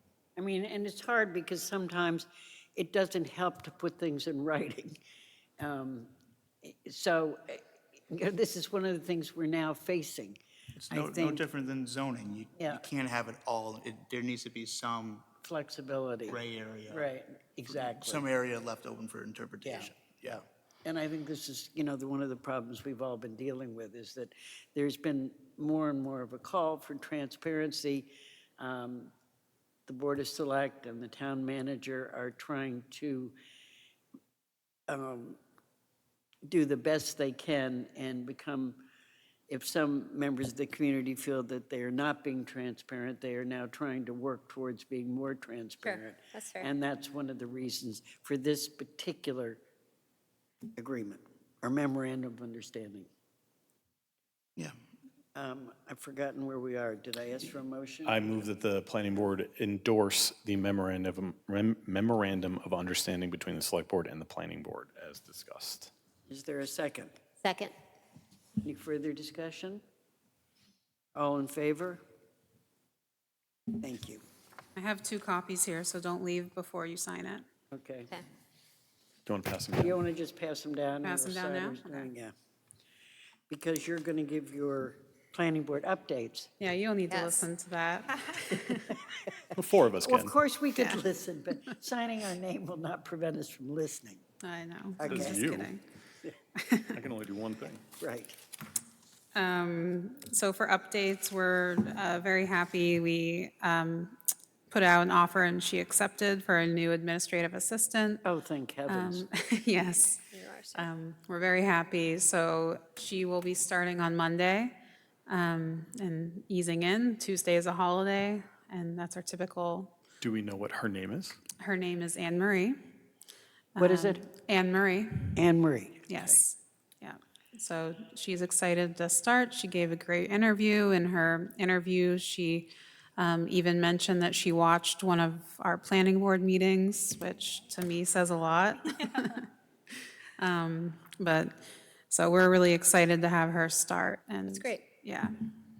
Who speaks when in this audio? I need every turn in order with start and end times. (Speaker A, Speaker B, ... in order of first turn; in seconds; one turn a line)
Speaker A: 0.4-5.0
Speaker A: 5.6-6.1
Speaker A: 6.6-10.4
Speaker B: 10.8-15.3
Speaker A: 10.9-11.4
Speaker A: 12.6-12.8
Speaker A: 15.4-18.3
Speaker B: 16.3-17.1
Speaker B: 17.6-20.4
Speaker A: 19.6-19.9
Speaker A: 20.8-29.1
Speaker A: 29.9-33.3
Speaker A: 34.9-35.4
Speaker A: 36.5-38.8
Speaker A: 39.5-49.6
Speaker C: 45.8-46.7
Speaker A: 50.8-53.1
Speaker A: 55.3-58.5
Speaker D: 58.0-65.9
Speaker A: 66.3-67.1
Speaker C: 67.4-67.7
Speaker A: 68.6-69.8
Speaker A: 71.1-72.0
Speaker A: 73.8-74.2
Speaker E: 74.8-77.5
Speaker A: 77.7-78.1
Speaker D: 79.2-80.0
Speaker A: 79.8-82.3
Speaker E: 81.0-82.1
Speaker A: 83.5-86.5
Speaker E: 86.6-89.0
Speaker C: 87.1-87.5
Speaker D: 89.5-90.3
Speaker A: 90.0-94.2
Speaker E: 90.8-91.0
Speaker E: 94.4-95.8
Speaker A: 95.0-95.5
Speaker D: 95.1-95.7
Speaker E: 96.5-97.0
Speaker D: 96.9-97.8
Speaker A: 98.0-98.3
Speaker E: 99.3-104.2
Speaker E: 104.7-108.2
Speaker A: 108.2-109.2
Speaker E: 108.9-114.7
Speaker C: 110.3-110.9
Speaker E: 115.3-119.9
Speaker D: 120.2-121.4
Speaker E: 121.6-122.8
Speaker E: 123.7-125.4
Speaker A: 123.8-124.2
Speaker A: 125.3-126.4
Speaker E: 126.1-139.5
Speaker E: 140.4-145.3
Speaker C: 144.5-144.8